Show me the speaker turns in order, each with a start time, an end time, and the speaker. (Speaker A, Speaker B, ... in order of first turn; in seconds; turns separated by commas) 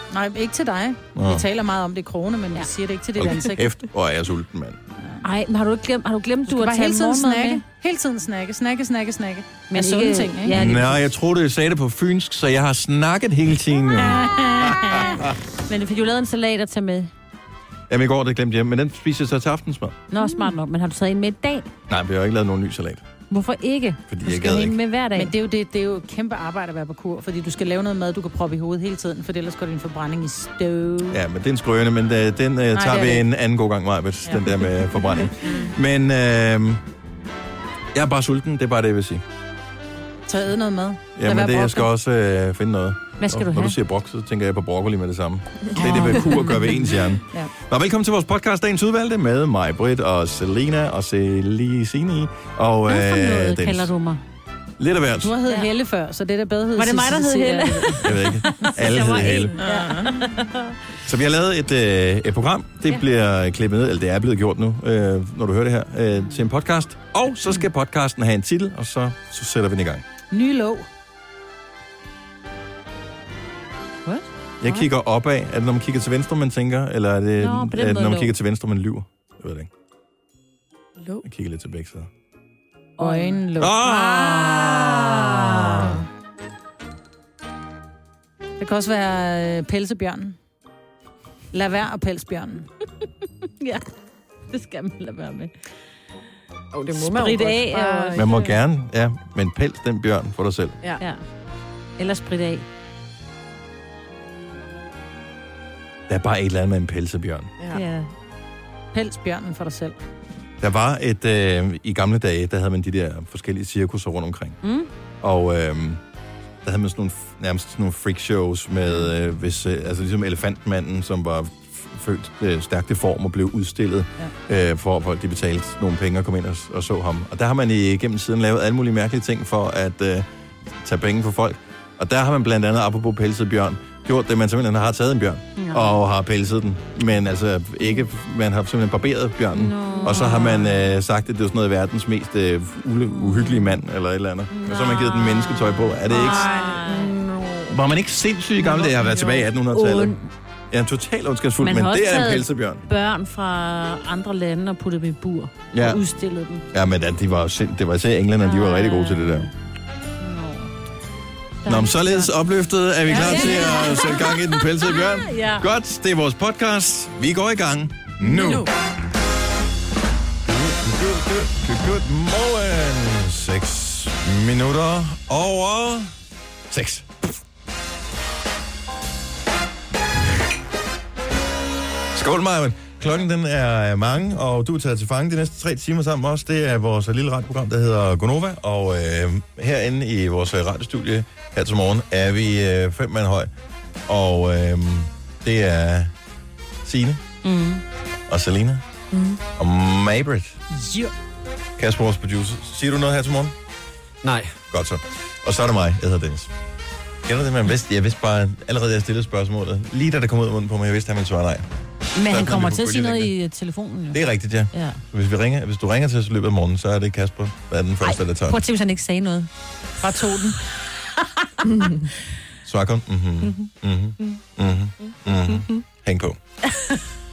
Speaker A: 0.1-3.7, Speaker B: 1.2-1.4, Speaker B: 3.2-4.8, Speaker C: 5.2-7.6, Speaker A: 6.5-10.6, Speaker C: 9.7-11.0, Speaker B: 10.5-15.3, Speaker A: 14.1-15.1, Speaker C: 14.8-17.1, Speaker B: 17.9-20.0, Speaker C: 20.1-21.7, Speaker A: 20.2-20.5, Speaker B: 21.9-23.0, Speaker C: 23.3-25.3, Speaker B: 24.1-24.8, Speaker A: 25.1-31.2, Speaker B: 31.1-36.8, Speaker A: 32.7-33.2, Speaker B: 37.9-39.2, Speaker A: 40.3-41.9, Speaker B: 41.2-53.9, Speaker C: 43.2-43.8, Speaker C: 45.8-47.0, Speaker A: 45.8-46.5, Speaker C: 52.9-54.2, Speaker B: 54.8-55.3, Speaker A: 55.2-58.6, Speaker C: 56.8-60.8, Speaker B: 58.0-59.6, Speaker A: 59.6-60.1, Speaker B: 61.1-70.1, Speaker A: 70.3-70.9, Speaker C: 74.1-74.9, Speaker B: 74.6-79.7, Speaker C: 77.4-78.3, Speaker B: 81.2-82.1, Speaker C: 83.0-83.5, Speaker A: 83.0-84.8, Speaker B: 83.6-86.0, Speaker C: 84.5-85.6, Speaker A: 88.6-90.4, Speaker A: 91.5-92.7, Speaker C: 94.5-95.5, Speaker D: 96.7-98.5, Speaker C: 97.0-98.5, Speaker B: 98.2-100.8, Speaker C: 102.0-102.7, Speaker B: 106.1-107.5, Speaker D: 107.6-107.8, Speaker C: 107.7-108.1, Speaker A: 108.9-110.0, Speaker B: 110.6-114.6, Speaker C: 114.6-114.9, Speaker B: 115.2-116.0, Speaker B: 116.6-146.5, Speaker C: 135.6-136.0, Speaker C: 139.5-140.8, Speaker C: 143.1-143.7, Speaker C: 144.5-147.2, Speaker D: 146.1-147.7, Speaker B: 147.7-150.2, Speaker C: 148.6-150.3, Speaker B: 150.7-152.8, Speaker C: 151.6-156.6, Speaker B: 155.7-156.0, Speaker B: 156.7-159.5, Speaker C: 158.4-159.5, Speaker C: 160.2-160.7, Speaker C: 161.7-162.3, Speaker B: 161.7-168.7, Speaker C: 163.1-165.7, Speaker D: 168.3-168.7, Speaker A: 168.4-168.6, Speaker B: 170.5-176.1, Speaker B: 176.7-177.3, Speaker B: 182.1-193.5, Speaker B: 194.1-196.1, Speaker B: 196.8-197.2, Speaker C: 197.4-197.8, Speaker B: 198.3-198.8, Speaker D: 199.1-199.4, Speaker B: 199.6-200.6, Speaker A: 200.7-201.1, Speaker B: 201.8-203.5, Speaker B: 204.7-206.5, Speaker B: 207.2-211.7, Speaker C: 212.2-215.0, Speaker B: 212.3-213.3, Speaker B: 214.1-218.6, Speaker C: 218.0-219.5, Speaker A: 220.0-220.6, Speaker B: 222.7-226.4, Speaker C: 226.7-227.0